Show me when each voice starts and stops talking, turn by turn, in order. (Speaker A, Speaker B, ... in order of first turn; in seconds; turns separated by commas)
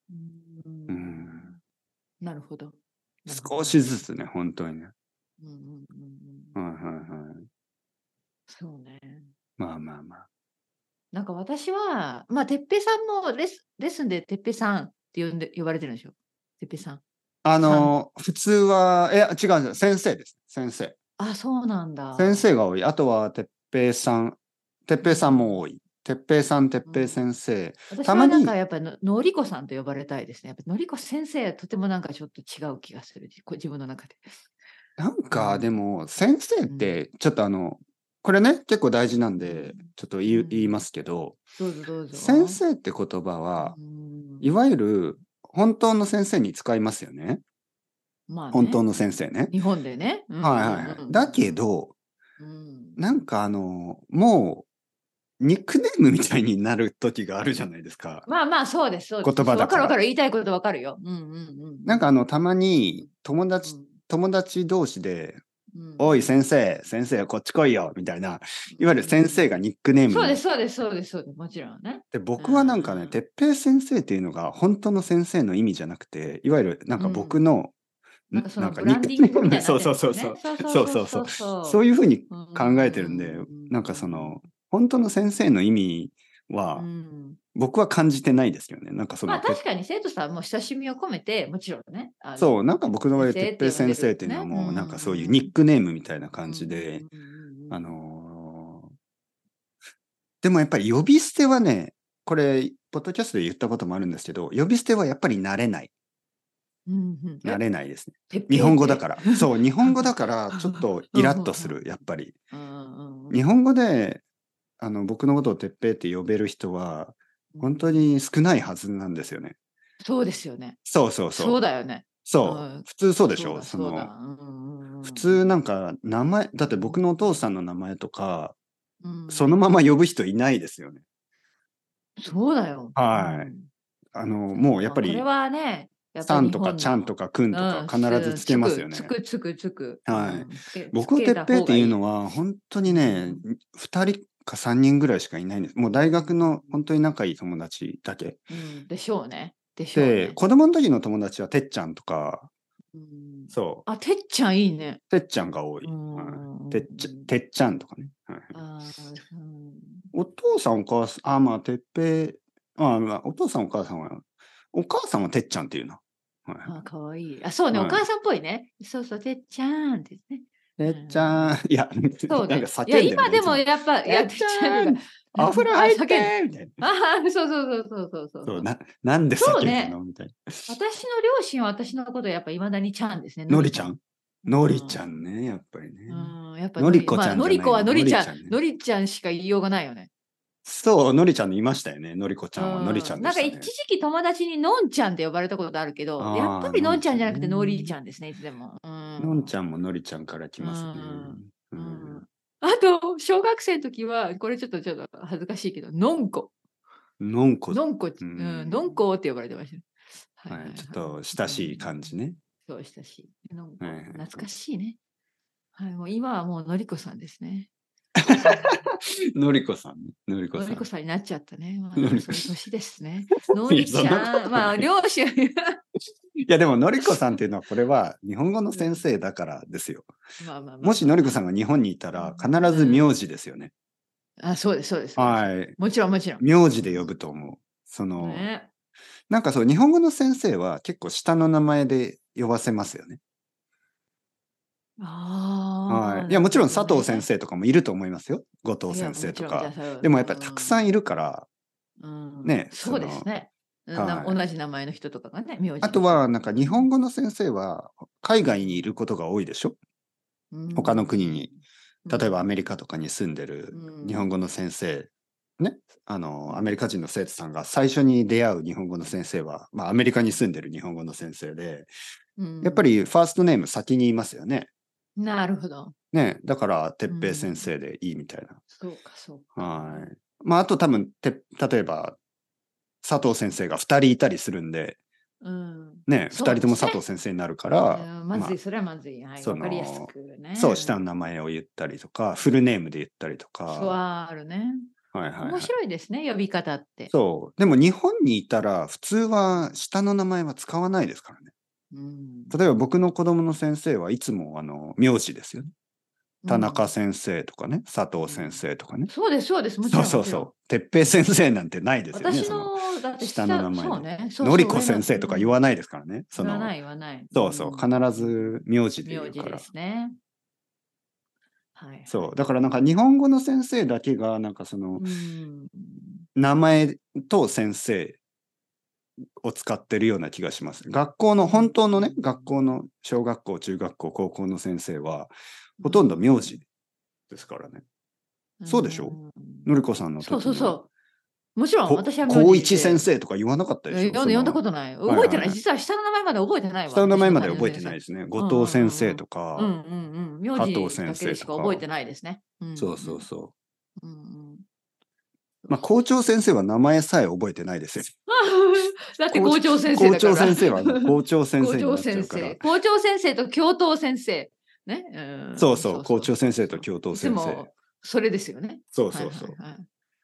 Speaker A: 0.1-1.6, Speaker B: 0.9-1.5, Speaker A: 2.2-4.0, Speaker B: 3.3-4.9, Speaker A: 5.4-6.6, Speaker B: 6.5-7.5, Speaker A: 8.5-9.3, Speaker B: 9.6-10.3, Speaker A: 11.1-17.0, Speaker B: 17.4-21.0, Speaker A: 17.6-17.9, Speaker A: 21.2-22.5, Speaker B: 22.2-28.5, Speaker A: 25.0-25.6, Speaker A: 26.9-27.2, Speaker A: 27.9-34.3, Speaker B: 35.0-41.4, Speaker A: 35.3-35.8, Speaker A: 36.7-37.0, Speaker A: 39.4-40.8, Speaker A: 41.6-42.6, Speaker B: 42.1-43.8, Speaker A: 43.6-44.5, Speaker B: 44.4-47.4, Speaker A: 48.3-49.0, Speaker B: 48.5-49.5, Speaker A: 49.5-51.5, Speaker B: 50.4-51.9, Speaker A: 52.4-53.0, Speaker B: 53.0-54.7, Speaker B: 55.4-58.3, Speaker A: 58.3-62.1, Speaker B: 59.2-60.0, Speaker B: 61.9-65.4, Speaker A: 63.6-63.9, Speaker A: 65.7-66.5, Speaker B: 66.0-70.4, Speaker A: 68.7-69.5, Speaker A: 70.1-73.2, Speaker B: 72.1-77.7, Speaker A: 77.0-77.4, Speaker B: 78.3-86.9, Speaker A: 78.3-84.5, Speaker A: 86.8-87.4, Speaker B: 87.5-89.6, Speaker A: 89.3-95.5, Speaker B: 92.4-97.0, Speaker A: 96.4-97.8, Speaker B: 97.7-98.9, Speaker B: 100.4-105.9, Speaker A: 106.9-107.6, Speaker B: 107.4-112.3, Speaker A: 108.3-111.9, Speaker A: 112.5-113.4, Speaker B: 113.3-114.2, Speaker B: 114.8-119.6, Speaker A: 117.5-118.1, Speaker A: 120.0-120.8, Speaker B: 120.9-121.6, Speaker A: 121.3-125.5, Speaker B: 122.2-124.1, Speaker B: 125.1-128.6, Speaker A: 126.6-127.5, Speaker A: 129.0-129.5, Speaker B: 129.3-131.0, Speaker A: 132.2-133.7, Speaker B: 133.0-133.5, Speaker B: 134.1-135.3, Speaker A: 134.5-143.4, Speaker B: 136.2-139.1, Speaker B: 140.1-148.4, Speaker A: 146.0-146.8, Speaker A: 148.5-150.4, Speaker B: 149.9-152.5, Speaker A: 152.9-155.0, Speaker B: 153.5-153.9, Speaker B: 155.1-158.5, Speaker A: 155.8-157.3, Speaker A: 158.5-160.1, Speaker B: 160.1-166.7, Speaker A: 166.7-171.6, Speaker B: 167.7-168.0, Speaker B: 170.8-176.8, Speaker A: 172.3-178.7, Speaker B: 178.5-180.8, Speaker A: 179.4-180.0, Speaker A: 180.7-183.9, Speaker B: 183.5-188.6, Speaker A: 184.4-185.0, Speaker A: 186.1-190.1, Speaker B: 190.7-193.7, Speaker A: 192.6-199.5, Speaker B: 196.2-197.9, Speaker B: 199.2-202.2, Speaker A: 200.6-206.5, Speaker B: 207.2-209.0, Speaker A: 207.7-212.1, Speaker B: 210.5-212.4, Speaker A: 212.6-215.0, Speaker B: 213.8-214.5, Speaker A: 215.8-217.7, Speaker B: 218.2-220.9, Speaker A: 218.3-218.8, Speaker A: 220.5-225.8, Speaker B: 222.0-222.5, Speaker B: 223.5-224.9, Speaker B: 226.5-230.1, Speaker A: 228.7-229.1, Speaker A: 230.4-231.4, Speaker B: 230.8-233.7, Speaker A: 232.1-233.1, Speaker A: 234.4-237.1, Speaker B: 235.2-235.8, Speaker B: 236.4-238.5, Speaker A: 238.2-238.7, Speaker B: 239.3-243.2, Speaker A: 245.0-247.3, Speaker B: 245.9-251.5, Speaker A: 248.9-250.9, Speaker A: 252.0-256.9, Speaker B: 252.4-253.3, Speaker B: 253.9-254.4, Speaker B: 255.8-259.8, Speaker A: 258.6-259.0, Speaker A: 260.5-262.4, Speaker B: 260.8-261.5, Speaker B: 262.1-271.9, Speaker A: 263.7-264.3, Speaker A: 266.5-266.7, Speaker A: 272.4-272.9, Speaker B: 272.6-274.7, Speaker A: 275.2-275.9, Speaker B: 276.1-278.6, Speaker A: 277.1-277.7, Speaker A: 278.7-280.1, Speaker B: 279.6-282.2, Speaker B: 283.0-285.0, Speaker A: 285.4-287.0, Speaker B: 286.1-288.6, Speaker A: 287.9-291.0, Speaker B: 289.4-294.0, Speaker A: 293.7-294.9, Speaker B: 295.1-295.7, Speaker A: 295.4-297.1, Speaker B: 297.1-301.5, Speaker A: 301.9-302.6, Speaker B: 302.5-305.7, Speaker A: 306.4-306.9, Speaker B: 306.5-309.1, Speaker A: 308.2-310.5, Speaker B: 309.9-316.7, Speaker A: 312.1-315.6, Speaker A: 316.3-320.2, Speaker B: 317.3-319.7, Speaker A: 321.8-322.4, Speaker B: 322.1-325.1, Speaker A: 325.0-326.2, Speaker B: 326.4-328.2, Speaker B: 329.4-336.6, Speaker A: 331.4-332.5, Speaker A: 335.8-336.5, Speaker B: 337.3-337.8, Speaker A: 338.6-339.7, Speaker B: 338.7-340.8, Speaker A: 340.2-340.9, Speaker A: 341.6-343.1, Speaker B: 341.9-345.6, Speaker A: 343.9-353.2, Speaker B: 346.9-349.8, Speaker B: 350.5-351.9, Speaker B: 352.8-353.5, Speaker A: 354.0-354.6, Speaker B: 355.7-358.1, Speaker A: 358.3-369.9, Speaker B: 359.3-362.7, Speaker B: 365.6-367.7, Speaker B: 368.9-369.6